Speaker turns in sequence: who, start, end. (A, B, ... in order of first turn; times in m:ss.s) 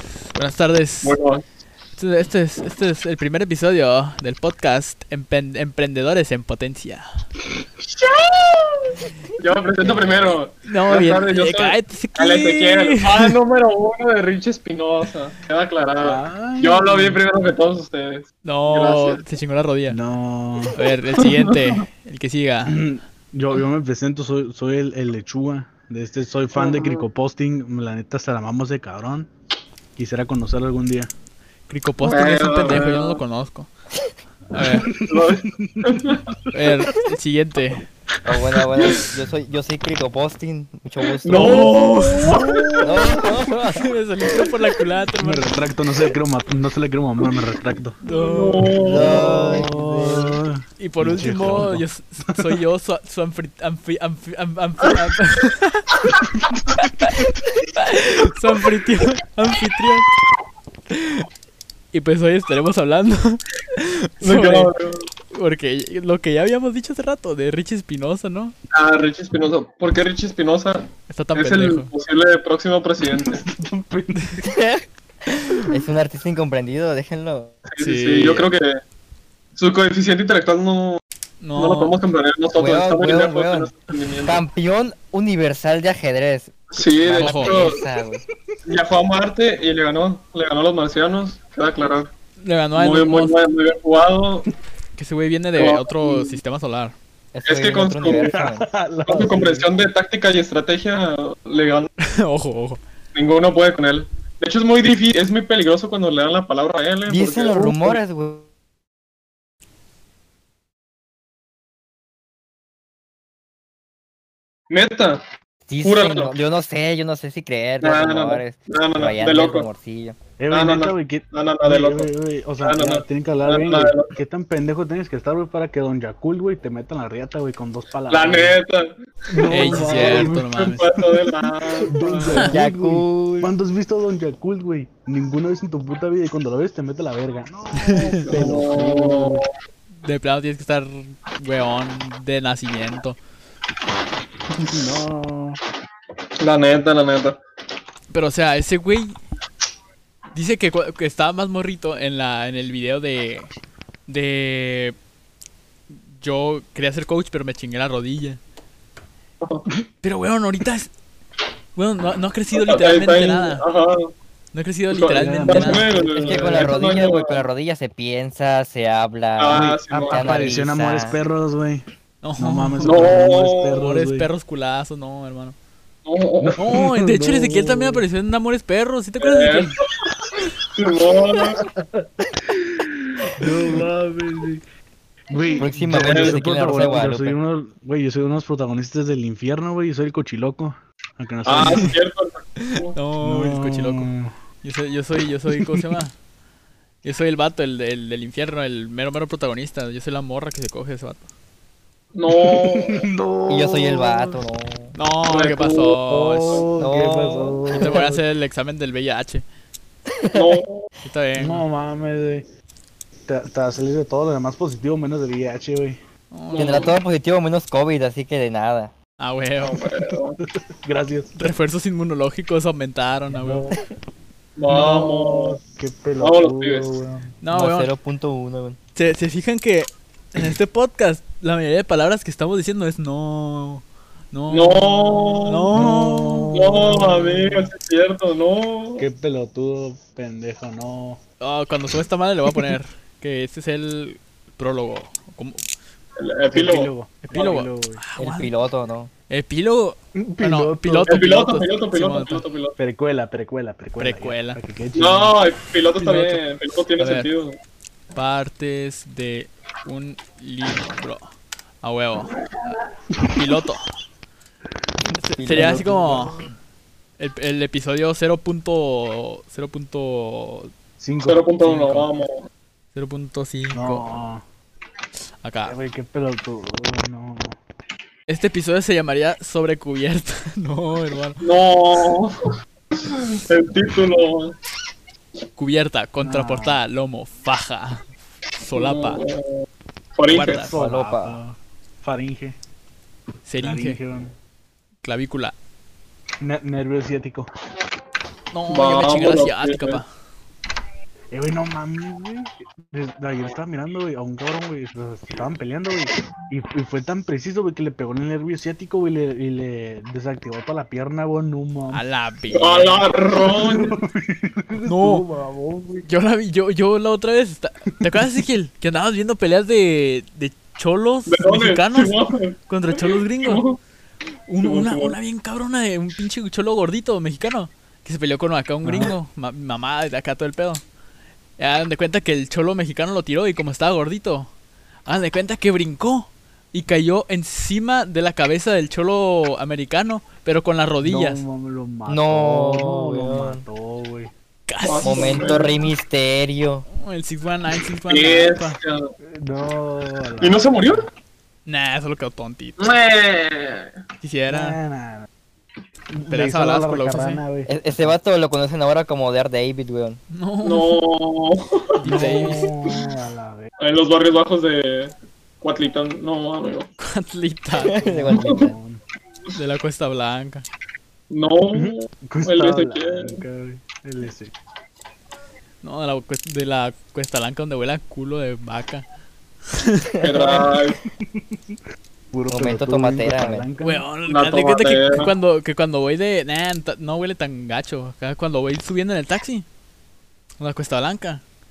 0:00.3-0:01.2 A
0:01.0-0:01.4 B
0:02.0-0:07.0 A
0:07.9-0:19.2 B
0:10.7-0:13.4 A
0:16.0-0:17.2 C
0:18.4-0:20.0 A
0:19.9-0:20.8 C
0:20.7-0:22.8 A
0:21.2-0:21.8 B
0:22.6-0:29.3 C
0:26.6-0:27.0 D
0:30.0-0:31.1 C
0:31.7-0:33.7 A
0:32.0-0:33.2 B
0:34.5-0:34.9 A
0:34.6-0:36.2 B
0:35.0-0:36.7 C
0:36.5-0:37.8 A
0:38.2-0:39.1 C
0:38.2-0:41.7 D
0:41.2-0:43.2 B
0:41.3-0:42.9 A
0:42.8-0:44.5 D
0:43.7-0:45.5 A
0:45.2-0:48.0 C
0:48.0-0:48.8 A
0:48.0-0:49.4 B
0:48.8-0:50.4 D
0:48.8-0:52.6 C
0:50.8-0:55.9 A
0:56.3-0:56.8 C
0:56.8-1:00.1 A
1:00.9-1:01.2 A
1:01.9-1:04.7 A
1:04.2-1:05.1 B
1:05.3-1:08.5 A
1:08.7-1:13.4 B
1:11.1-1:11.9 A
1:13.0-1:14.4 C
1:14.4-1:17.6 D
1:17.7-1:18.8 B
1:17.8-1:18.5 A
1:19.6-1:21.0 B
1:21.4-1:21.9 A
1:21.6-1:24.4 B
1:22.5-1:23.7 D
1:24.2-1:28.2 D
1:26.7-1:27.8 B
1:27.1-1:27.6 A
1:28.6-1:32.1 B
1:32.4-1:33.4 A
1:32.7-1:34.5 B
1:35.0-1:36.9 A
1:35.6-1:36.4 B
1:37.3-1:38.7 D
1:37.4-1:38.3 B
1:38.0-1:39.9 C
1:39.1-1:41.9 B
1:42.0-1:42.8 A
1:43.1-1:48.0 B
1:47.1-1:48.5 D
1:54.7-1:55.2 B
1:55.7-2:00.2 D
1:55.8-1:56.3 B
1:57.8-1:59.7 B
2:00.4-2:08.6 C
2:00.5-2:02.1 B
2:02.6-2:04.1 B
2:08.1-2:12.5 B
2:09.3-2:10.5 C
2:09.5-2:11.0 A
2:11.8-2:19.4 C
2:12.3-2:12.5 A
2:12.4-2:13.5 D
2:17.8-2:18.3 A
2:18.2-2:19.4 B
2:20.0-2:23.2 A
2:24.6-2:25.6 C
2:26.4-2:27.4 B
2:28.1-2:29.2 A
2:30.3-2:33.5 A
2:34.1-2:35.0 A
2:35.9-2:38.4 A
2:39.4-2:39.6 B
2:40.0-2:40.9 A
2:41.7-2:43.6 A
2:42.5-2:44.1 B
2:44.5-2:45.9 A
2:44.9-2:47.4 B
2:45.1-2:46.7 C
2:46.1-2:51.2 D
2:49.4-2:50.3 B
2:49.5-2:51.8 C
2:52.2-2:53.1 A
2:52.4-2:54.3 C
2:52.8-2:53.8 B
2:53.7-2:55.6 A
2:56.0-2:56.6 B
2:56.4-2:58.0 C
2:56.6-2:59.8 A
2:59.2-2:59.7 B
3:00.6-3:01.6 B
3:01.3-3:04.6 C
3:05.3-3:12.0 C
3:05.6-3:07.4 D
3:05.9-3:06.4 B
3:11.4-3:13.0 B
3:12.6-3:14.1 A
3:13.2-3:14.3 C
3:14.6-3:16.1 A
3:15.5-3:15.8 C
3:17.0-3:21.2 A
3:22.1-3:23.1 B
3:22.3-3:24.4 C
3:23.5-3:25.0 D
3:24.9-3:26.7 A
3:25.3-3:26.6 B
3:26.1-3:28.2 C
3:26.8-3:28.0 D
3:27.8-3:29.4 A
3:30.1-3:30.6 D
3:30.3-3:30.9 B
3:31.0-3:31.6 A
3:31.4-3:32.4 C
3:33.3-3:36.0 C
3:36.3-3:36.9 A
3:36.5-3:37.0 B
3:36.6-3:38.9 D
3:39.2-3:39.8 A
3:39.6-3:40.4 B
3:40.8-3:41.4 C
3:41.4-3:43.7 A
3:43.3-3:43.8 C
3:44.6-3:45.6 B
3:44.7-3:47.4 C
3:46.2-3:46.9 B
3:47.4-3:47.9 A
3:47.5-3:48.8 D
3:49.0-3:56.5 A
3:54.5-3:55.7 B
3:55.7-3:57.7 C
3:56.5-3:59.0 B
3:59.0-4:01.2 C
4:01.4-4:05.6 A
4:06.2-4:06.9 B
4:06.5-4:08.0 C
4:07.3-4:08.5 A
4:08.2-4:09.1 D
4:09.3-4:12.4 A
4:10.1-4:11.1 C
4:11.1-4:12.8 B
4:12.8-4:15.4 C
4:14.0-4:14.6 A
4:14.9-4:17.6 B
4:16.0-4:16.4 A
4:17.0-4:17.3 A
4:18.1-4:21.3 A
4:21.8-4:22.4 A
4:23.3-4:23.8 A
4:25.2-4:26.4 A
4:25.4-4:26.4 D
4:25.5-4:26.4 C
4:27.2-4:30.7 A
4:31.0-4:32.0 C
4:31.2-4:32.5 B
4:32.9-4:34.1 A
4:33.7-4:34.4 C
4:35.4-4:35.8 A
4:35.6-4:37.6 C
4:38.3-4:41.4 A
4:41.4-4:42.5 B
4:43.0-4:44.6 B
4:45.6-4:48.0 A
4:46.2-4:46.8 C
4:48.6-4:49.2 A
4:48.7-4:50.7 B
4:50.3-4:50.7 A
4:50.4-4:52.6 C
4:50.7-4:51.4 D
4:53.4-4:54.0 A
4:53.6-4:54.4 C
4:55.0-4:55.5 A
4:56.4-4:57.5 C
4:58.5-5:00.1 A
4:58.7-5:00.0 B
5:01.3-5:12.0 C
5:11.9-5:13.0 A
5:12.5-5:14.0 B
5:13.4-5:16.1 C
5:14.8-5:15.2 A
5:16.1-5:23.6 A
5:21.3-5:23.8 B
5:24.5-5:30.8 A
5:24.6-5:25.2 B
5:28.8-5:29.1 C
5:31.6-5:34.5 A
5:35.0-5:41.4 A
5:41.0-5:44.3 C
5:42.1-5:43.6 D
5:44.7-5:45.5 A
5:44.8-5:45.8 B
5:45.0-5:46.8 D
5:46.9-5:48.8 A
5:48.1-5:49.1 B
5:49.2-5:51.1 C
5:50.4-5:51.0 B
5:51.6-5:52.9 A
5:52.8-5:53.9 B
5:54.2-5:54.8 A
5:54.5-5:55.3 C
5:56.1-5:57.7 C
5:56.3-5:57.4 A
5:57.7-6:00.2 D
6:00.3-6:01.0 A
6:00.6-6:03.0 B
6:02.0-6:02.7 A
6:02.0-6:03.7 C
6:03.8-6:06.9 B
6:07.0-6:08.3 A
6:07.8-6:08.7 D
6:08.0-6:09.0 C
6:08.3-6:08.6 B
6:09.5-6:10.6 A
6:11.3-6:13.4 B
6:11.7-6:14.5 C
6:15.8-6:19.0 A
6:19.7-6:20.1 A
6:20.1-6:20.8 D
6:20.2-6:21.0 B
6:21.1-6:21.8 C
6:22.3-6:24.0 C
6:22.5-6:23.6 D
6:23.8-6:29.6 A
6:24.3-6:25.3 B
6:30.6-6:31.4 A